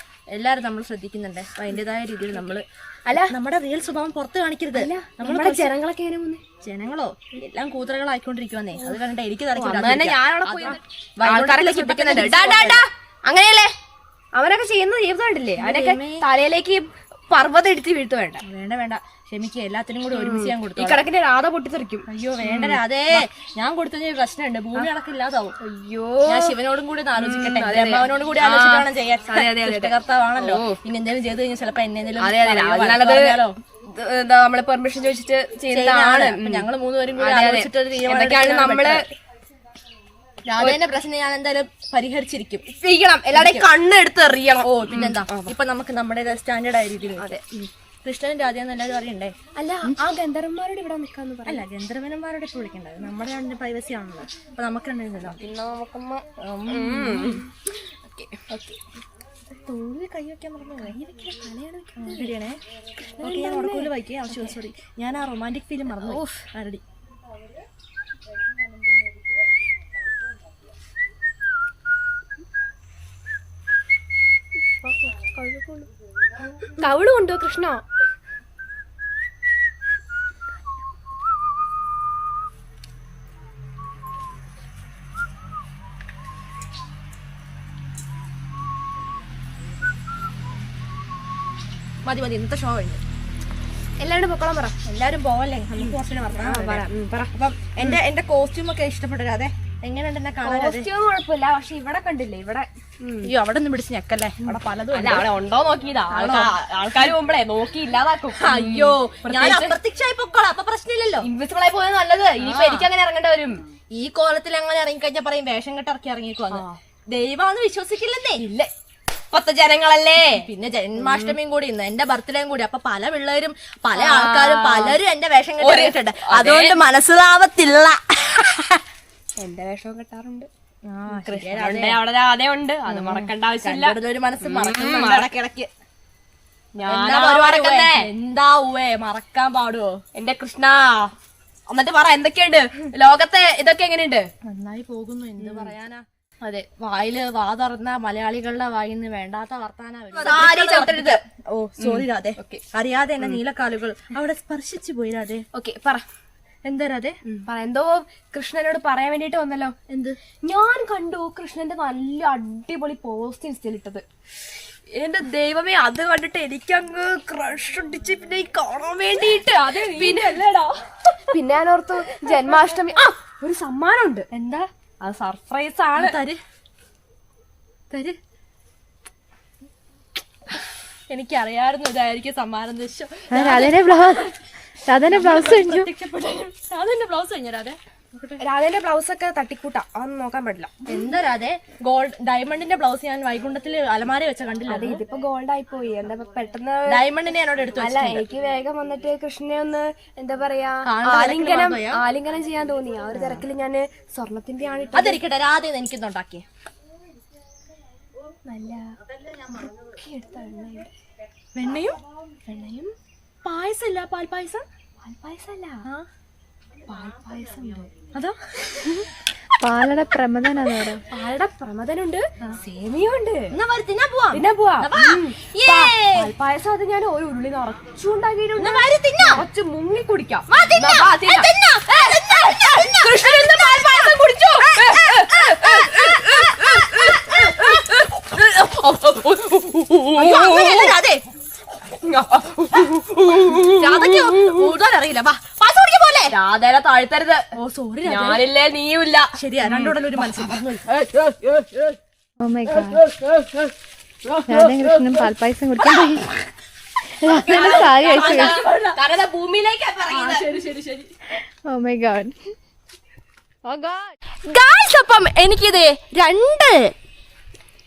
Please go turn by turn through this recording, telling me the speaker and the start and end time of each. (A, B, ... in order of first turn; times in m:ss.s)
0:00.3-0:05.8 A
0:03.1-0:03.3 B
0:04.7-0:06.4 B
0:06.6-0:12.8 A
0:09.6-0:13.7 B
0:14.3-0:18.4 B
0:15.6-0:16.2 A
0:18.4-0:21.1 A
0:20.1-0:23.3 B
0:22.1-0:25.6 A
0:25.6-0:26.6 B
0:26.3-0:33.6 A
0:27.2-0:30.8 B
0:32.2-0:39.1 B
0:35.7-0:39.0 A
0:40.5-0:42.7 A
0:42.7-0:45.5 B
0:43.3-0:43.7 A
0:44.6-0:47.4 A
0:47.2-0:47.7 B
0:48.0-0:49.3 A
0:49.6-0:51.6 B
0:51.5-0:55.4 A
0:55.3-0:57.5 B
0:56.4-0:57.5 A
0:58.4-0:58.8 B
0:59.6-1:02.6 A
1:01.3-1:02.2 B
1:03.2-1:04.5 B
1:03.2-1:06.8 A
1:06.0-1:06.4 B
1:14.8-1:15.9 B
1:16.8-1:17.8 B
1:32.0-1:33.0 A
1:34.0-1:34.8 B
1:34.8-1:40.9 A
1:35.8-1:38.0 B
1:40.4-1:43.3 B
1:43.2-1:45.3 A
1:44.9-1:49.8 B
1:46.1-1:47.1 A
1:48.4-1:51.3 A
1:51.2-1:53.6 B
1:52.4-1:52.9 A
1:53.9-1:58.5 A
1:56.5-1:56.8 B
1:58.4-1:58.7 B
1:59.3-2:01.4 B
2:00.3-2:08.8 A
2:03.9-2:05.0 B
2:05.6-2:06.8 B
2:09.4-2:10.5 B
2:10.9-2:12.0 A
2:11.1-2:15.3 B
2:12.9-2:15.7 A
2:16.8-2:18.1 B
2:16.8-2:20.0 A
2:20.1-2:21.1 B
2:21.7-2:24.3 B
2:24.4-2:35.4 A
2:25.4-2:25.7 B
2:30.2-2:31.2 B
2:31.8-2:32.6 B
2:35.6-2:36.0 B
2:36.6-2:37.2 A
2:37.3-2:39.8 B
2:39.9-2:40.2 A
2:40.4-2:44.0 B
2:45.0-2:54.3 B
2:49.2-2:50.4 A
2:54.3-2:54.7 A
2:55.0-2:56.2 B
2:56.0-2:56.4 A
2:57.9-2:58.2 A
3:01.1-3:04.3 A
3:03.3-3:04.3 C
3:04.9-3:05.9 C
3:05.1-3:08.4 A
3:08.4-3:10.8 B
3:10.8-3:15.0 A
3:14.7-3:17.0 B
3:16.9-3:18.2 A
3:17.8-3:25.2 B
3:20.8-3:22.0 A
3:23.2-3:23.4 A
3:24.9-3:26.4 A
3:28.4-3:28.9 B
3:29.4-3:30.9 B
3:31.6-3:32.0 A
3:32.4-3:32.9 B
3:33.4-3:34.6 A
3:35.0-3:35.9 B
3:36.9-3:38.1 B
3:38.1-3:38.9 A
3:39.6-3:41.0 C
3:41.1-3:43.6 B
3:43.5-3:46.3 A
3:44.3-4:01.0 B
3:48.6-3:49.4 A
3:50.5-3:57.9 A
4:00.2-4:01.2 A
4:02.0-4:04.7 B
4:03.5-4:06.4 A
4:06.3-4:07.5 B
4:07.6-4:08.4 A
4:08.0-4:10.4 B
4:09.3-4:10.9 A
4:11.0-4:11.8 B
4:12.4-4:13.1 C
4:14.5-4:16.4 C
4:17.2-4:18.6 C
4:17.4-4:19.0 A
4:17.4-4:21.1 B
4:20.0-4:20.5 A
4:21.7-4:22.3 C
4:23.7-4:24.0 B
4:24.5-4:26.9 A